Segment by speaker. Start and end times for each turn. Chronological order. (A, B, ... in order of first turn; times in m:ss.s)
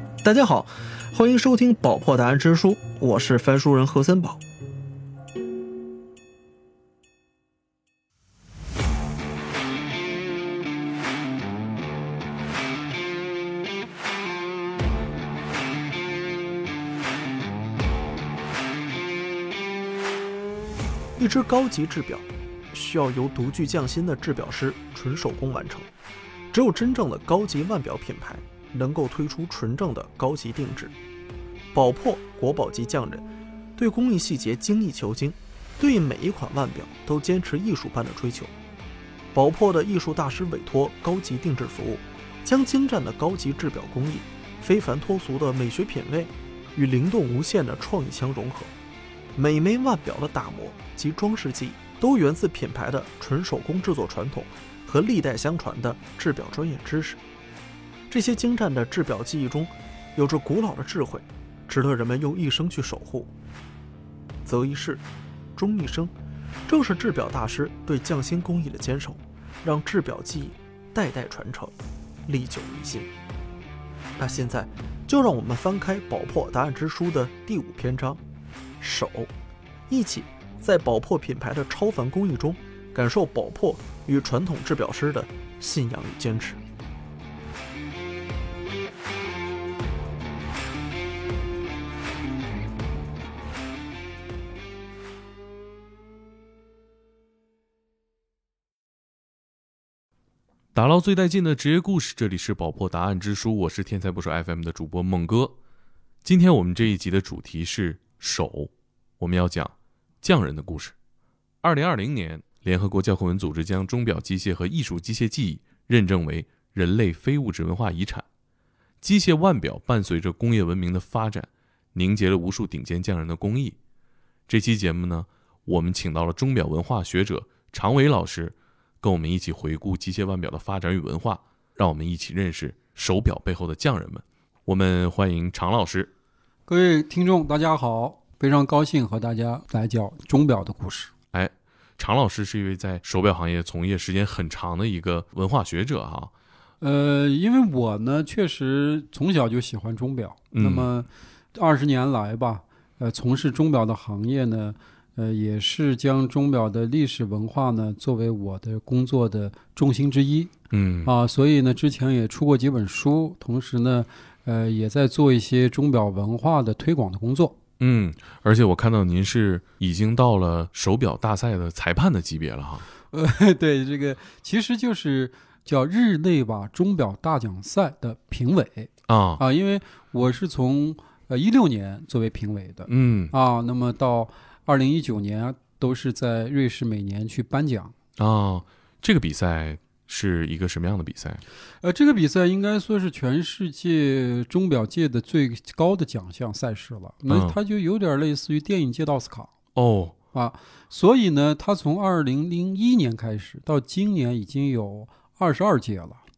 0:00.2-0:04.4 A
0:21.2-0:25.9 A
0:26.5-0:30.9 A
0:31.7-0:33.2 A
0:33.8-0:38.5 A
0:39.3-0:48.7 A
0:49.3-0:57.2 A
0:58.1-1:03.3 A
1:04.4-1:05.0 A
1:05.6-1:06.1 A
1:06.7-1:11.7 A
1:12.3-1:13.1 A
1:14.2-1:18.2 A
1:18.8-1:19.3 A
1:19.9-1:26.6 A
1:40.7-1:45.6 B
1:46.2-1:50.9 B
1:51.6-1:58.2 B
1:59.0-2:03.8 B
2:04.5-2:16.1 B
2:16.7-2:21.1 C
2:21.3-2:26.3 B
2:26.8-2:40.5 C
2:30.5-2:30.9 B
2:40.7-2:41.1 B
2:41.0-2:47.5 C
2:47.8-2:52.8 B
2:53.1-3:07.9 C
2:59.1-2:59.4 B
3:02.9-3:03.3 B
3:08.2-3:11.4 B
3:11.8-3:19.5 C
3:17.3-3:17.6 B
3:19.7-3:20.2 B
3:20.3-3:26.2 C